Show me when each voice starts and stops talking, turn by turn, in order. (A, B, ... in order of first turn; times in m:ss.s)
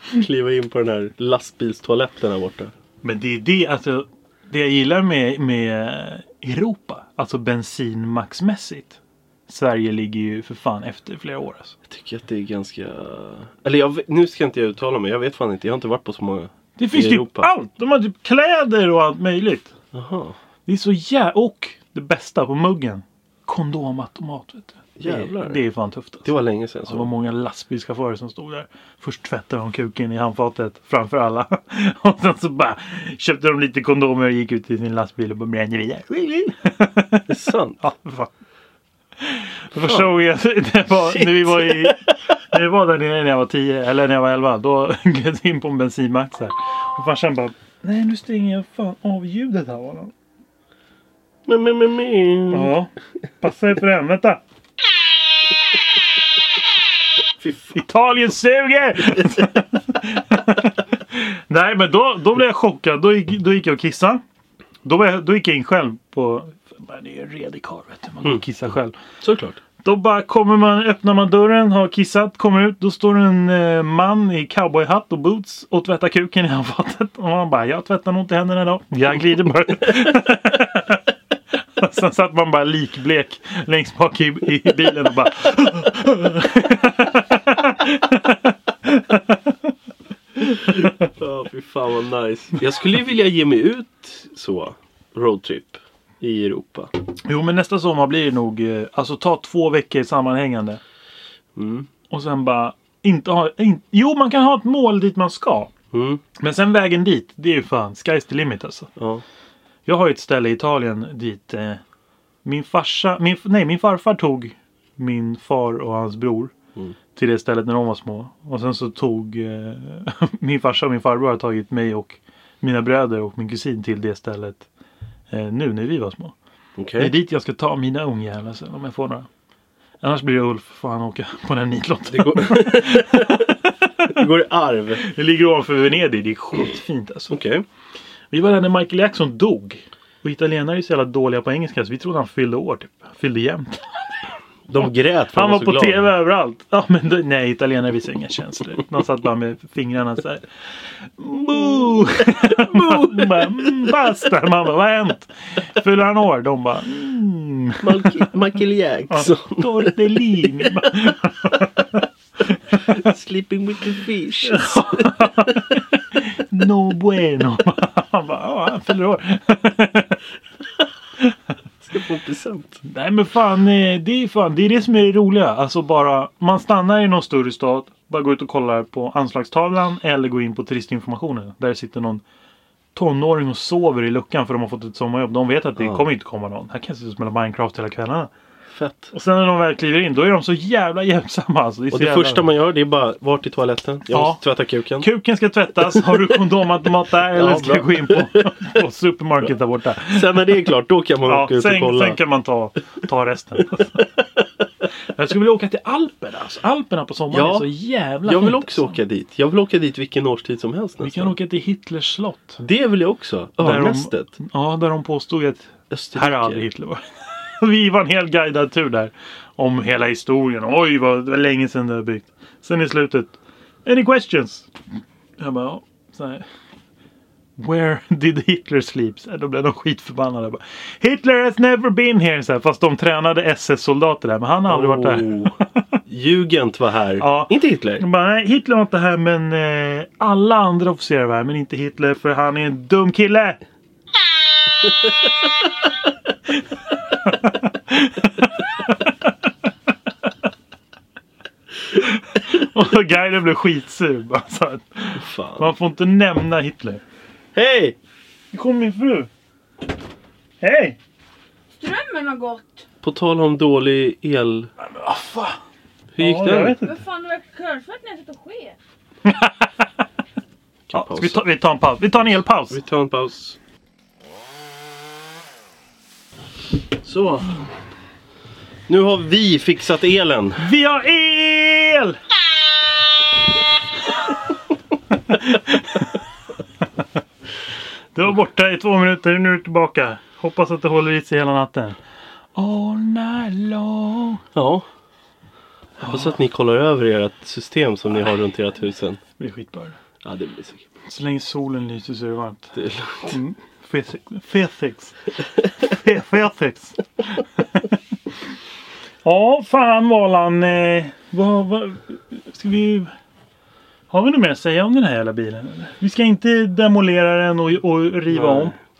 0:00.1-0:02.7 A
0:03.0-0:11.8 B
0:11.9-0:17.5 A
0:16.8-0:19.7 B
0:19.9-0:20.4 A
0:20.6-0:26.3 B
0:25.0-0:25.6 A
0:26.2-0:27.1 A
0:26.8-0:37.3 B
0:37.3-0:37.8 A
0:37.8-0:38.3 B
0:39.2-0:50.1 B
0:39.8-0:40.1 A
0:41.0-0:42.0 A
0:51.4-0:52.7 A
0:52.5-0:54.4 B
0:57.4-0:57.8 A
0:57.7-1:04.2 B
1:04.8-1:09.0 B
1:09.2-1:09.6 A
1:09.8-1:21.0 B
1:21.8-1:29.6 B
1:30.4-1:30.9 B
1:30.6-1:36.9 A
1:37.2-1:40.8 B
1:41.5-1:41.9 A
1:42.1-1:45.7 B
1:45.9-1:46.2 A
1:46.4-1:48.9 B
1:49.0-1:49.2 A
1:49.8-1:51.8 B
1:52.4-1:56.5 B
1:57.1-2:04.7 B
2:05.3-2:06.3 B
2:06.8-2:07.1 A
2:07.0-2:09.3 B
2:10.0-2:14.1 B
2:12.1-2:15.0 A
2:15.0-2:17.4 B
2:17.3-2:17.6 A
2:18.3-2:24.0 B
2:24.7-2:26.1 A
2:25.3-2:30.4 B
2:31.1-2:38.3 B
2:31.5-2:33.9 A
2:37.8-2:40.7 A
2:39.1-2:42.0 B
2:42.7-2:45.5 A
2:44.4-2:50.2 B
2:51.8-2:52.8 A
2:52.8-3:02.2 B
3:02.9-3:08.3 B
3:05.8-3:06.1 A
3:08.7-3:09.1 A
3:09.1-3:12.4 B
3:11.9-3:15.1 A
3:14.1-3:14.4 B
3:15.0-3:20.5 B
3:15.9-3:16.3 A
3:17.3-3:18.8 A
3:20.1-3:22.2 A
3:21.2-3:24.1 B
3:25.1-3:29.0 B
3:27.3-3:27.7 A
3:28.2-3:31.3 A
3:31.0-3:32.6 B
3:32.6-3:34.3 A
3:33.6-3:44.7 B
3:35.9-3:36.6 A
3:45.4-3:46.4 B
3:47.6-3:55.7 B
3:54.7-3:55.5 A
3:56.1-3:58.0 A
3:57.2-4:03.6 B
4:07.1-4:09.3 B
4:11.9-4:17.0 B
4:15.1-4:15.7 A
4:17.5-4:18.0 A
4:18.5-4:19.3 B
4:20.6-4:21.0 B
4:21.8-4:22.8 C
4:23.0-4:24.7 A
4:24.8-4:25.6 B
4:26.1-4:26.8 A
4:26.2-4:27.0 B
4:26.8-4:28.8 C
4:29.2-4:29.8 B
4:30.9-4:31.4 A
4:30.9-4:32.8 B
4:32.7-4:33.6 A
4:37.0-4:37.6 A
4:38.9-4:40.7 A
4:40.6-4:42.2 B
4:45.3-4:46.2 B
4:48.1-4:52.0 B
4:52.6-4:54.4 B
4:54.5-4:54.9 A
4:56.0-4:56.3 B
4:56.0-4:59.2 A
4:59.4-5:00.0 B
5:00.2-5:00.8 A
5:01.1-5:05.2 B
5:02.8-5:03.4 A
5:05.8-5:08.0 B
5:09.2-5:13.1 B
5:14.1-5:18.8 B
5:18.3-5:18.7 A